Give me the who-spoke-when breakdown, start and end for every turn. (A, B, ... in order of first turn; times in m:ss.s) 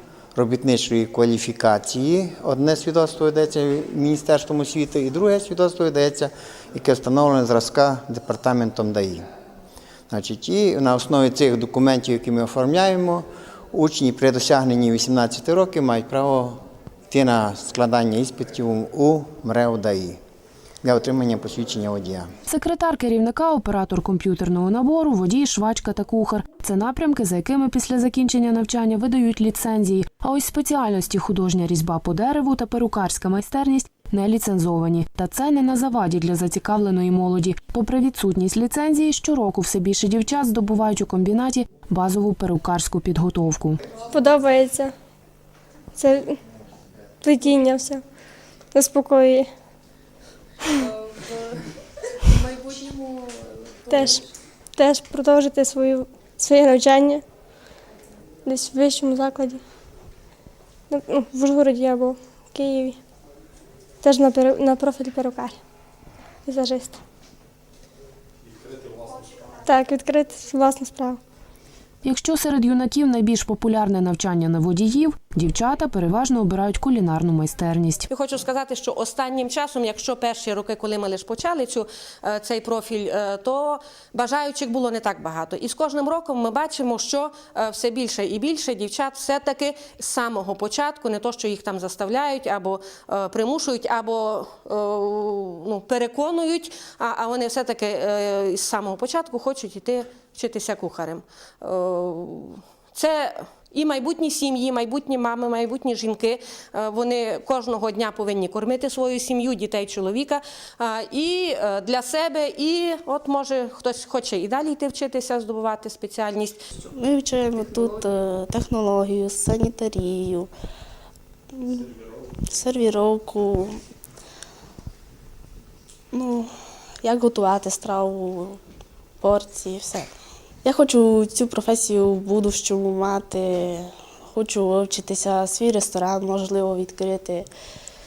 0:00.3-0:09.2 A
0:10.1-0:20.2 A
0:20.8-0:22.3 A
0:22.5-0:43.8 B
0:44.0-0:44.9 C
0:45.9-0:46.4 C
0:47.2-0:48.0 C
0:48.7-0:49.5 C
0:53.9-0:57.2 C
0:58.4-0:59.6 C
1:00.9-1:03.0 C
1:04.0-1:05.6 C
1:06.4-1:07.0 C
1:09.6-1:11.2 C
1:12.0-1:18.1 B
1:18.1-1:56.6 D
1:56.9-2:00.5 E
2:01.5-2:01.9 E
2:02.4-2:03.8 E
2:06.1-2:08.6 E
2:09.2-2:10.1 E
2:10.6-2:17.5 E